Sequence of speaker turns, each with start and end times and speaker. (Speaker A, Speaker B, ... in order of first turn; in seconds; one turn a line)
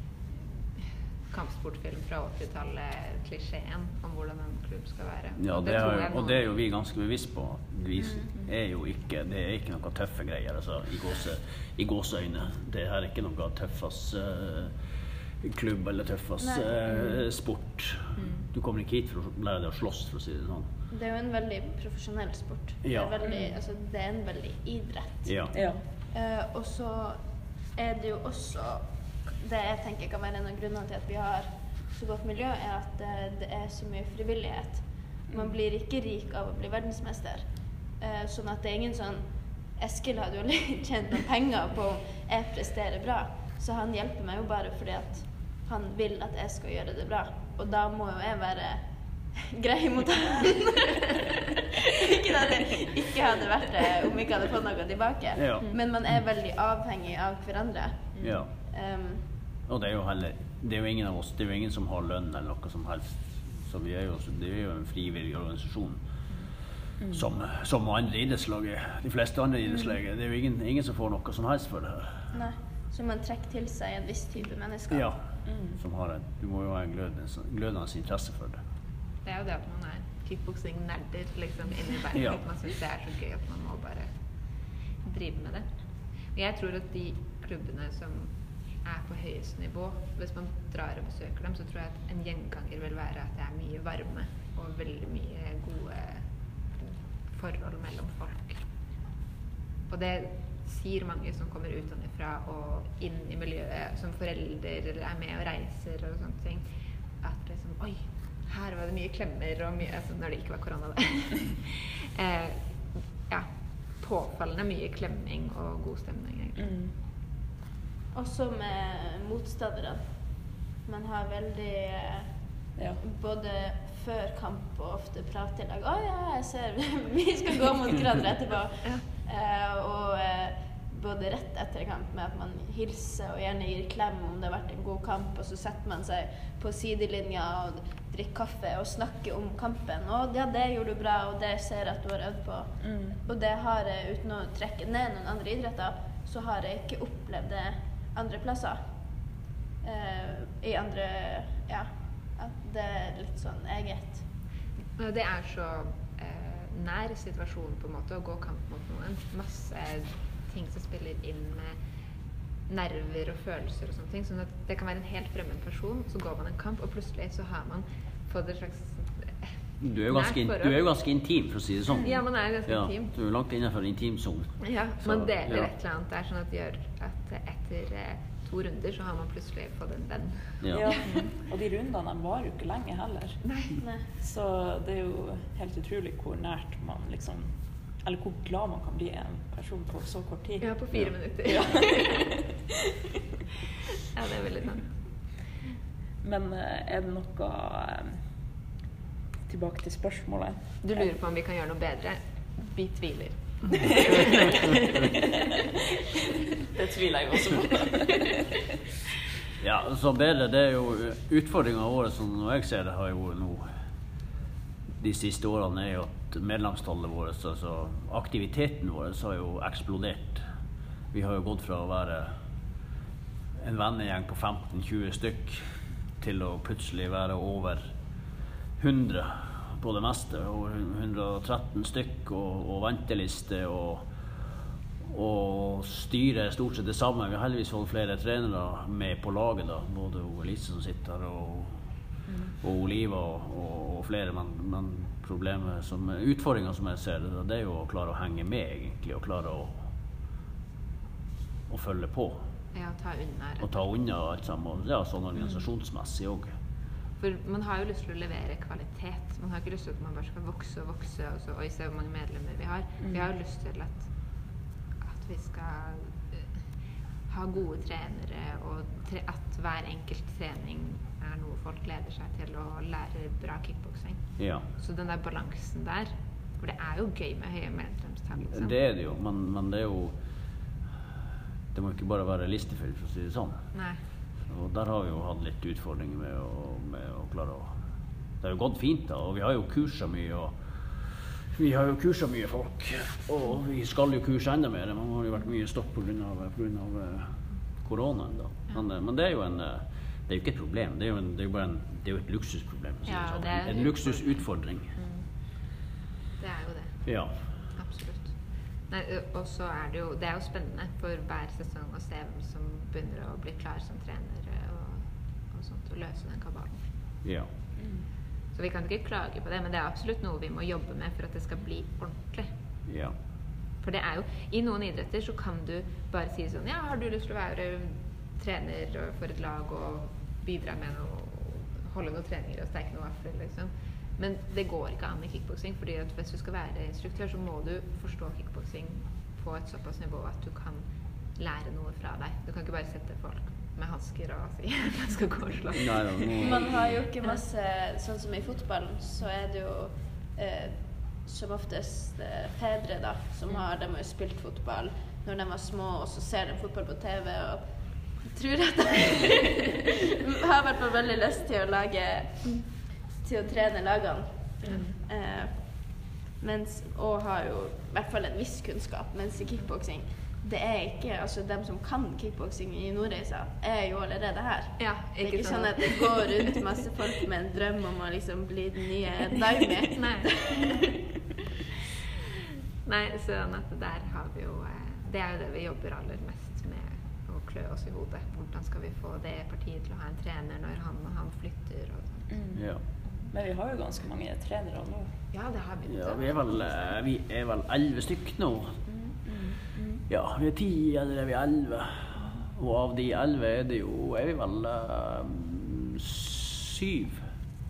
Speaker A: 0.3-6.5
Speaker B: 5.3-14.8
Speaker C: 8.0-8.3
Speaker B: 15.4-20.6
Speaker C: 16.4-16.8
Speaker A: 18.1-18.4
Speaker C: 20.9-51.2
Speaker B: 22.8-23.1
Speaker D: 23.2-23.6
Speaker B: 25.2-25.6
Speaker D: 25.5-25.8
Speaker D: 35.3-35.6
Speaker C: 52.0-59.2
Speaker B: 55.3-55.7
Speaker A: 58.1-58.4
Speaker B: 58.2-58.5
Speaker B: 59.7-66.0
Speaker D: 67.0-67.3
Speaker B: 67.1-72.3
Speaker C: 72.3-75.1
Speaker B: 74.9-78.6
Speaker D: 75.4-75.8
Speaker A: 79.2-84.1
Speaker B: 82.1-82.5
Speaker A: 85.0-85.6
Speaker A: 86.3-98.6
Speaker A: 99.9-106.7
Speaker A: 107.2-116.8
Speaker D: 116.6-116.9
Speaker C: 118.1-122.5
Speaker D: 122.8-123.0
Speaker C: 123.0-154.3
Speaker D: 142.8-143.2
Speaker A: 155.0-161.8
Speaker A: 162.7-169.5
Speaker B: 169.8-175.7
Speaker A: 170.1-170.8
Speaker A: 172.0-173.1
Speaker A: 174.6-181.3
Speaker B: 180.6-181.0
Speaker D: 180.7-183.4
Speaker A: 183.4-183.8
Speaker C: 183.8-184.1
Speaker D: 184.2-190.8
Speaker A: 190.6-192.3
Speaker A: 194.1-195.0
Speaker D: 196.2-198.2
Speaker D: 199.4-201.1
Speaker A: 200.8-204.7
Speaker D: 206.7-208.3
Speaker B: 209.6-213.7
Speaker B: 215.0-220.4
Speaker B: 221.1-222.3
Speaker B: 223.6-225.6
Speaker B: 226.2-227.8
Speaker B: 228.8-234.1
Speaker B: 235.0-241.8
Speaker B: 242.6-249.8
Speaker B: 251.7-252.4
Speaker A: 252.7-253.8
Speaker B: 253.6-256.5
Speaker A: 257.2-264.4
Speaker D: 263.0-263.3
Speaker A: 265.0-266.4
Speaker A: 267.3-278.8
Speaker B: 274.4-274.7
Speaker B: 278.5-280.2
Speaker B: 281.7-283.6
Speaker A: 283.7-284.0
Speaker B: 284.5-287.7
Speaker B: 288.4-304.9
Speaker A: 303.0-305.3
Speaker A: 306.4-316.8
Speaker B: 307.0-307.6
Speaker B: 317.2-317.5
Speaker D: 317.8-318.0
Speaker A: 318.5-322.5
Speaker B: 322.9-323.2
Speaker A: 323.8-346.5
Speaker B: 345.7-347.0
Speaker C: 346.4-380.5
Speaker A: 364.6-364.9
Speaker A: 374.8-376.5
Speaker A: 379.9-380.9
Speaker A: 382.8-392.3
Speaker D: 392.3-395.1
Speaker B: 392.5-392.8
Speaker A: 393.0-393.3
Speaker A: 395.3-396.9
Speaker B: 395.9-398.8
Speaker A: 398.9-399.1
Speaker D: 399.2-400.0
Speaker B: 400.1-407.2
Speaker A: 402.2-402.4